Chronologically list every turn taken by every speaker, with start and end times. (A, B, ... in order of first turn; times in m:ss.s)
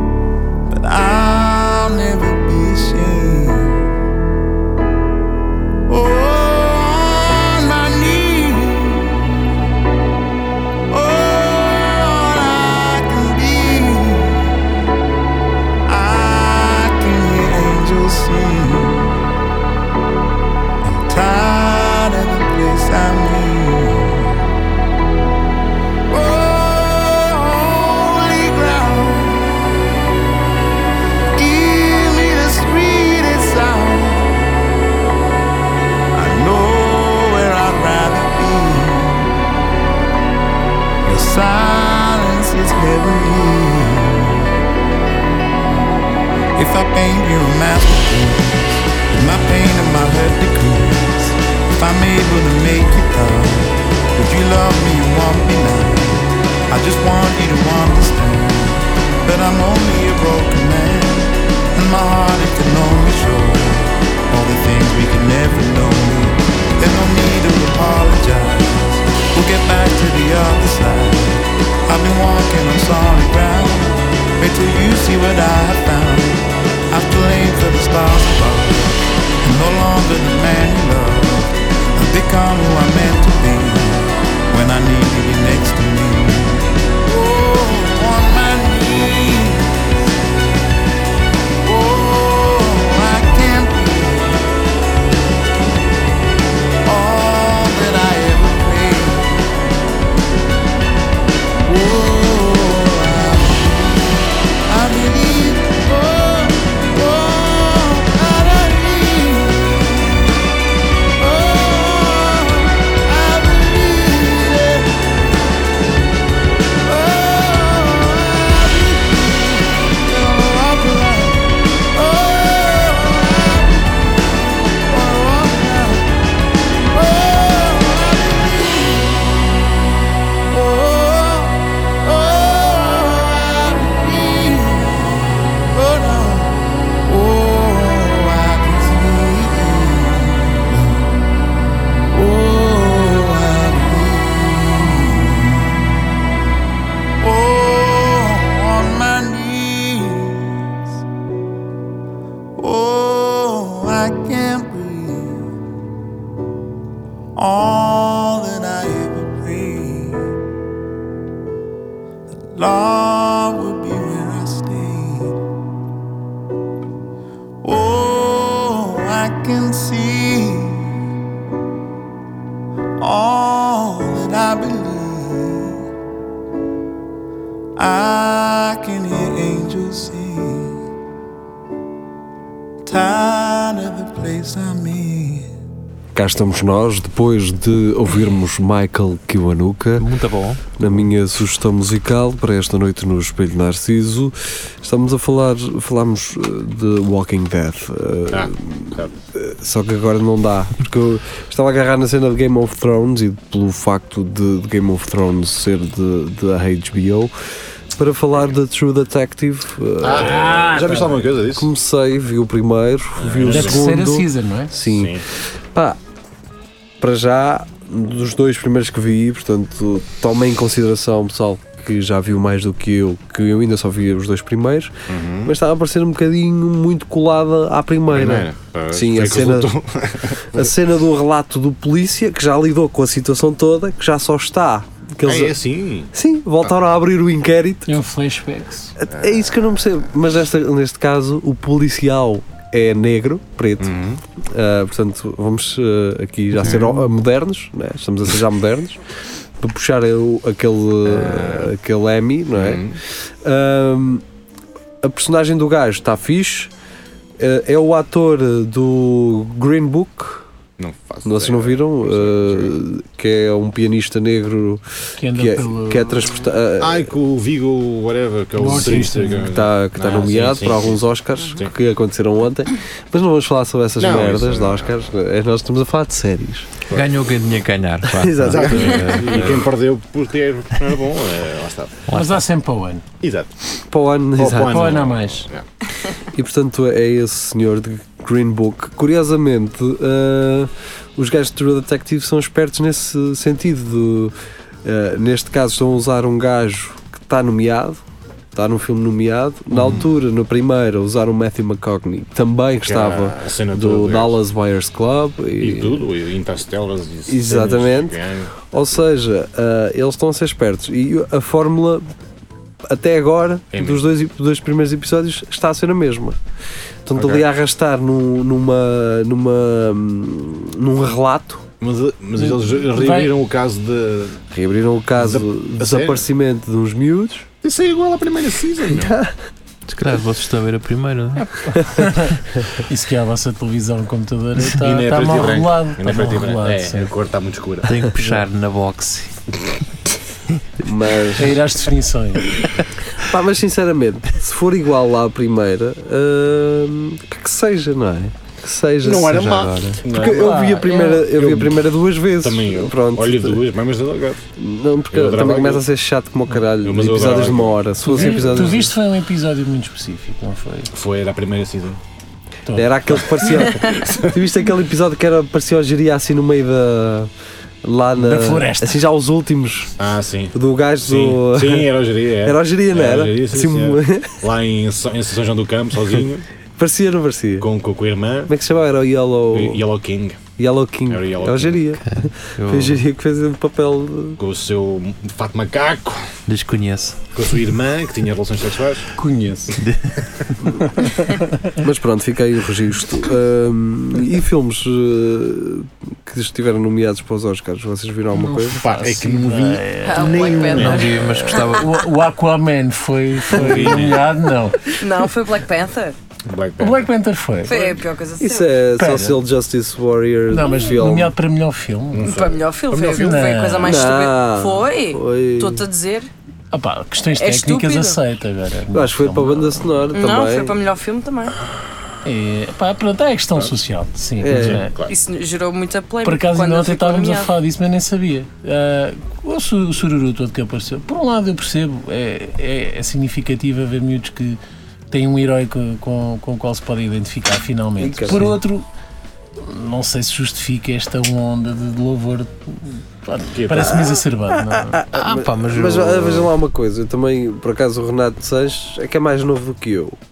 0:00.7-0:03.8 A
0:05.9-0:09.2 A
0:10.9-0:14.5 A
0:15.9-0:19.2 A
0:20.8-0:24.4 A
0:26.1-0:29.6 A
0:31.4-0:34.5 A
0:36.1-0:39.3 A
0:41.0-0:44.5 A
0:46.5-1:29.9 A
1:31.6-1:34.5 A
1:36.8-1:39.6 A
1:41.6-1:49.8 A
1:51.2-1:55.0 A
1:56.8-2:03.9 A
2:04.9-2:06.1 A
2:06.9-2:09.3 A
2:10.5-2:21.1 A
2:22.1-2:26.0 A
2:27.2-2:31.0 A
2:32.6-2:35.4 A
2:37.4-2:40.3 A
2:42.3-2:45.4 A
2:47.6-2:51.0 A
2:53.0-2:55.8 A
2:57.8-3:00.8 A
3:02.8-3:05.5 A
3:06.1-3:10.1 B
3:10.0-3:10.6 C
3:10.8-3:27.3 B
3:18.3-3:19.1 D
3:28.0-3:30.6 B
3:30.0-3:31.7 D
3:30.1-3:31.2 E
3:31.5-3:36.0 B
3:33.2-3:33.8 D
3:33.4-3:34.7 E
3:34.8-3:35.2 D
3:37.0-3:49.8 B
3:45.1-3:45.5 D
3:48.1-3:50.6 D
3:50.5-3:55.6 B
3:55.2-3:56.1 D
3:56.1-3:58.0 B
3:57.9-3:58.9 E
3:59.0-4:09.0 B
4:03.8-4:04.2 D
4:09.6-4:14.2 B
4:11.0-4:11.7 D
4:12.5-4:13.0 D
4:15.0-4:16.7 B
4:17.4-4:20.5 B
4:20.8-4:22.7 D
4:21.2-4:24.8 B
4:25.2-4:26.2 E
4:25.3-4:27.1 B
4:26.8-4:31.7 D
4:28.6-4:29.5 E
4:29.5-4:36.7 B
4:34.0-4:34.9 D
4:36.9-4:39.7 C
4:38.0-4:39.5 B
4:38.4-4:42.0 D
4:42.1-4:42.4 C
4:42.1-4:43.0 E
4:43.2-4:43.5 D
4:43.9-4:45.0 B
4:44.4-4:45.6 D
4:44.6-4:45.5 E
4:46.3-4:58.0 B
4:58.5-5:06.0 B
4:59.8-5:00.0 D
5:02.8-5:04.4 D
5:05.6-5:08.5 D
5:07.3-5:08.2 B
5:08.7-5:12.0 B
5:12.8-5:16.4 B
5:13.7-5:14.0 D
5:17.0-5:21.6 B
5:17.2-5:17.4 D
5:21.8-5:24.4 D
5:22.4-5:23.3 E
5:24.5-5:27.5 B
5:25.2-5:26.2 D
5:27.6-5:29.1 D
5:28.9-5:29.3 B
5:29.9-5:31.9 C
5:31.7-5:37.1 E
5:34.8-5:38.0 D
5:37.8-5:39.3 C
5:40.8-5:41.6 B
5:41.4-5:42.5 E
5:43.2-5:53.6 B
5:49.0-5:51.9 D
5:50.2-5:51.2 E
5:52.4-5:54.4 D
5:54.6-5:58.9 B
5:55.1-5:55.8 D
5:56.8-5:58.9 D
5:58.0-6:00.9 E
6:00.9-6:02.0 D
6:02.7-6:02.9 E
6:02.7-6:07.3 B
6:03.3-6:04.3 D
6:07.8-6:10.0 B
6:08.2-6:09.0 E
6:10.0-6:16.4 D
6:10.5-6:14.4 B
6:16.8-6:17.7 B
6:17.6-6:18.5 D
6:18.5-6:19.8 B
6:19.5-6:20.4 D
6:20.6-6:24.4 B
6:21.1-6:21.8 D
6:22.0-6:23.0 C
6:24.4-6:26.2 D
6:26.5-6:27.2 C
6:27.3-6:29.1 D
6:29.2-6:29.8 E
6:29.8-6:30.2 C
6:30.8-6:31.7 E
6:31.8-6:38.8 B
6:38.3-6:44.9 E
6:38.8-6:41.1 D
6:40.0-6:41.8 F
6:40.8-6:41.9 C
6:43.5-6:44.2 D
6:45.0-6:46.2 F
6:46.4-6:47.1 D
6:46.8-6:47.8 E
6:47.6-6:48.8 F
6:48.4-6:51.3 B
6:49.0-6:49.3 E
6:50.5-6:52.3 E
6:52.1-6:53.6 D
6:52.2-6:56.3 F
6:53.1-6:53.8 E
6:53.8-6:55.8 B
6:56.7-6:59.9 E
6:57.4-6:58.2 F
6:58.9-7:00.7 B
7:00.1-7:01.6 F
7:02.2-7:04.9 E
7:04.4-7:04.8 B
7:04.5-7:05.1 D
7:05.1-7:07.5 F
7:06.2-7:14.6 E
7:15.1-7:18.8 E
7:18.0-7:18.5 B
7:19.6-7:25.0 E
7:23.5-7:24.1 D
7:23.7-7:30.2 B
7:25.1-7:26.5 C